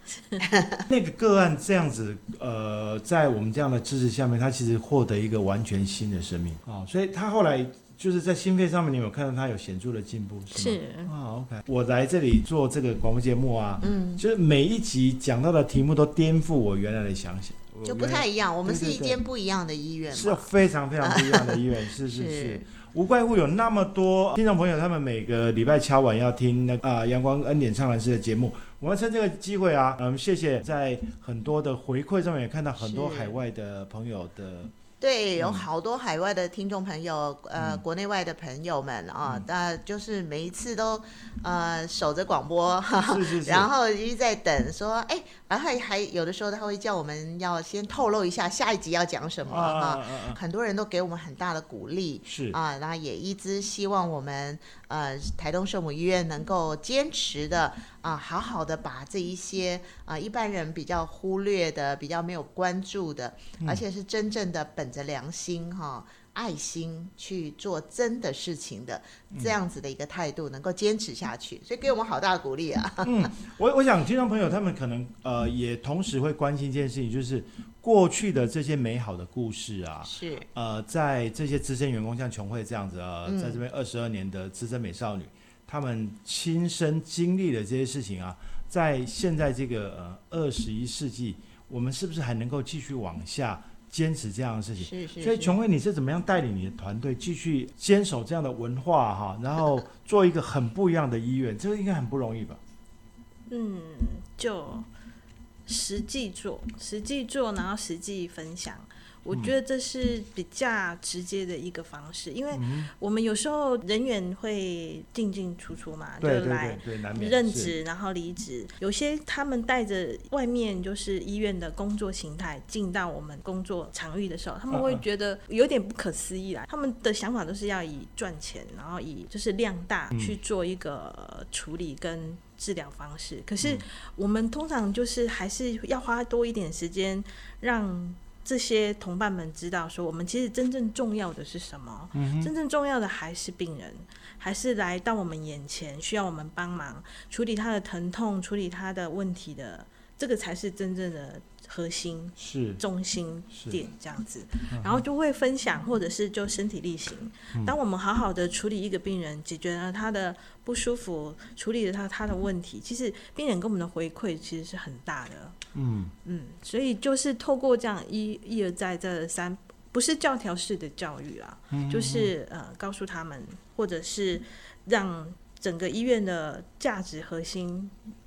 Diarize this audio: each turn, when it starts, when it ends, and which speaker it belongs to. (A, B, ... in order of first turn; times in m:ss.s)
0:00.4-0:00.8 A
0:00.9-0:19.2 B
0:10.5-0:11.1 C
0:13.8-0:14.2 A
0:17.8-0:20.5 A
0:20.1-0:34.7 B
0:21.0-0:22.6 A
0:32.8-0:33.4 A
0:35.0-1:13.3 A
0:35.4-0:35.7 B
0:37.6-0:37.8 B
0:43.1-0:43.7 B
0:49.5-0:50.4 B
0:52.3-0:52.6 B
1:13.0-1:42.6 B
1:20.0-1:20.5 A
1:23.2-1:23.6 A
1:34.8-1:35.6 A
1:43.5-1:44.9 C
1:45.7-2:45.6 C
1:52.5-1:52.9 B
1:56.2-1:57.7 B
2:04.7-2:05.0 B
2:10.1-2:10.4 B
2:22.1-2:22.5 B
2:32.4-2:32.8 B
2:33.5-2:33.8 B
2:34.7-2:35.0 B
2:45.7-2:46.1 B
2:46.2-2:58.0 C
2:51.7-2:52.3 B